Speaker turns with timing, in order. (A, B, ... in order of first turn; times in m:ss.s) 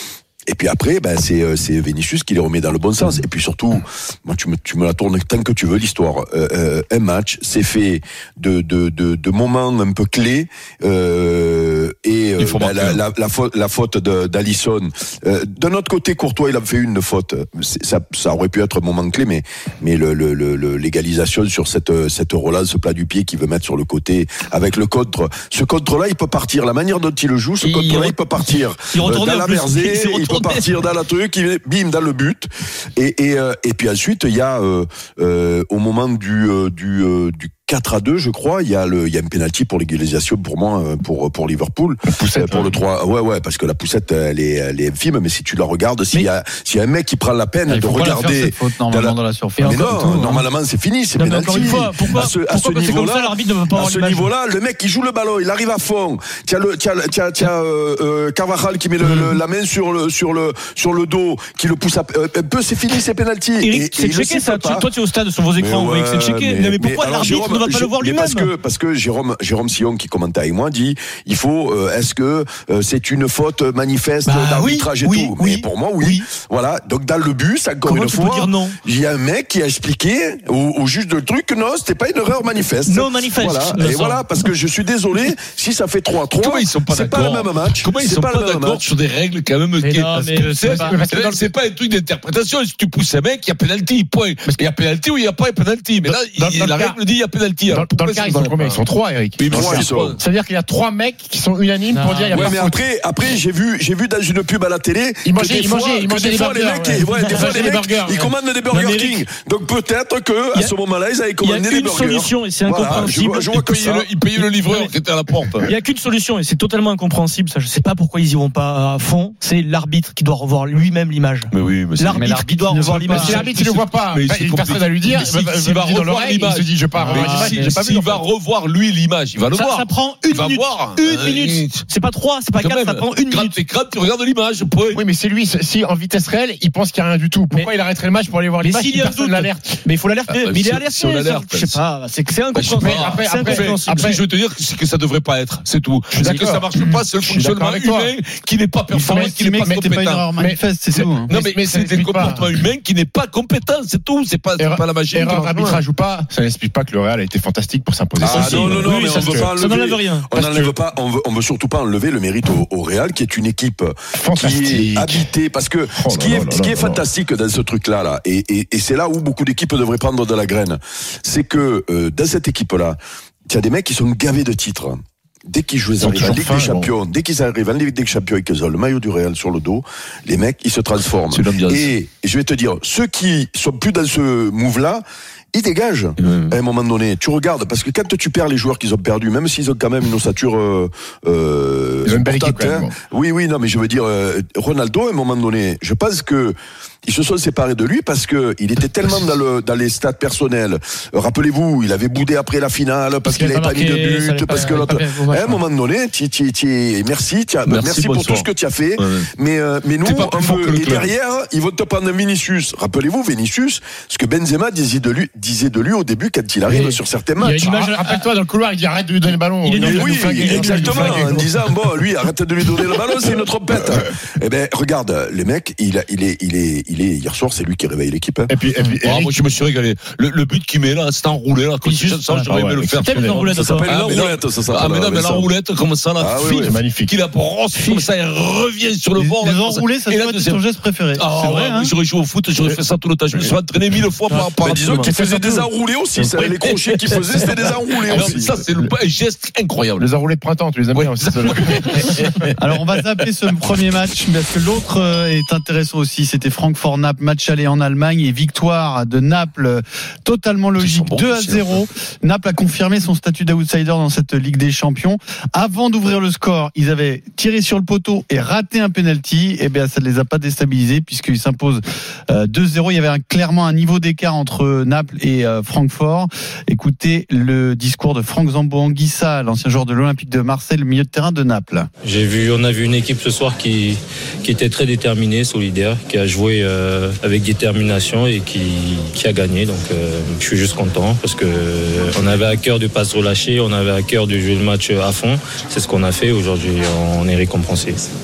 0:00.5-1:04.9 A
0:12.4-0:13.0 B
0:27.6-0:28.2 C
0:28.9-0:30.7 C
0:42.1-0:42.7 D
0:47.7-0:50.4 E
0:49.6-0:50.2 C
0:51.2-0:54.3 C
0:59.0-0:59.4 C
1:03.6-1:08.5 C
1:05.6-1:28.9 A
1:14.2-1:16.3 C
1:17.8-1:18.8 C
1:22.8-1:24.4 C
1:26.3-1:38.8 B
1:29.8-1:31.0 C
1:30.2-1:31.5 D
1:36.0-1:37.0 D
1:37.7-1:42.8 D
1:39.4-1:40.2 B
1:39.5-1:40.2 A
1:41.9-1:42.5 C
1:42.3-1:54.1 A
1:45.2-1:48.3 D
1:48.7-1:49.2 C
1:51.4-1:53.7 C
1:53.6-1:55.7 B
1:54.4-1:54.9 C
1:55.6-2:03.6 C
2:01.5-2:02.3 B
2:02.1-2:03.4 E
2:03.1-2:08.2 D
2:03.3-2:11.8 B
2:07.0-2:07.7 C
2:09.5-2:13.6 C
2:12.6-2:15.0 B
2:14.9-2:19.8 D
2:18.6-2:24.1 C
2:20.3-2:21.8 B
2:22.5-2:30.3 B
2:22.8-2:24.2 D
2:26.1-2:28.1 D
2:28.9-2:31.3 E
2:29.0-2:29.8 D
2:30.3-2:32.5 D
2:31.3-2:35.8 B
2:34.6-2:39.5 D
2:38.2-3:37.7 A
2:38.3-2:38.7 B
2:38.7-2:40.3 C
2:40.3-2:40.8 D
2:44.1-2:45.3 D
2:45.9-2:47.0 D
2:56.0-2:56.9 D
3:01.3-3:01.9 B
3:06.2-3:06.6 B
3:12.0-3:13.0 D
3:23.2-3:25.6 C
3:27.7-3:29.3 B
3:30.0-3:31.1 B
3:36.7-3:41.6 D
3:36.8-3:38.3 C
3:39.6-3:41.3 C
3:39.8-3:48.5 A
3:48.5-3:49.4 D
3:49.0-4:00.6 B
3:51.8-3:53.9 C
3:52.4-3:53.5 D
3:53.5-3:55.5 A
3:56.2-3:56.8 A
3:56.6-3:57.1 D
3:57.7-3:58.0 C
3:59.2-4:01.9 E
4:01.1-4:05.2 B
4:04.5-4:08.5 A
4:05.2-4:05.7 D
4:06.1-4:10.1 B
4:10.0-4:12.3 D
4:10.9-4:12.7 B
4:12.6-4:41.9 E
4:20.8-4:21.8 B
4:42.0-4:58.0 F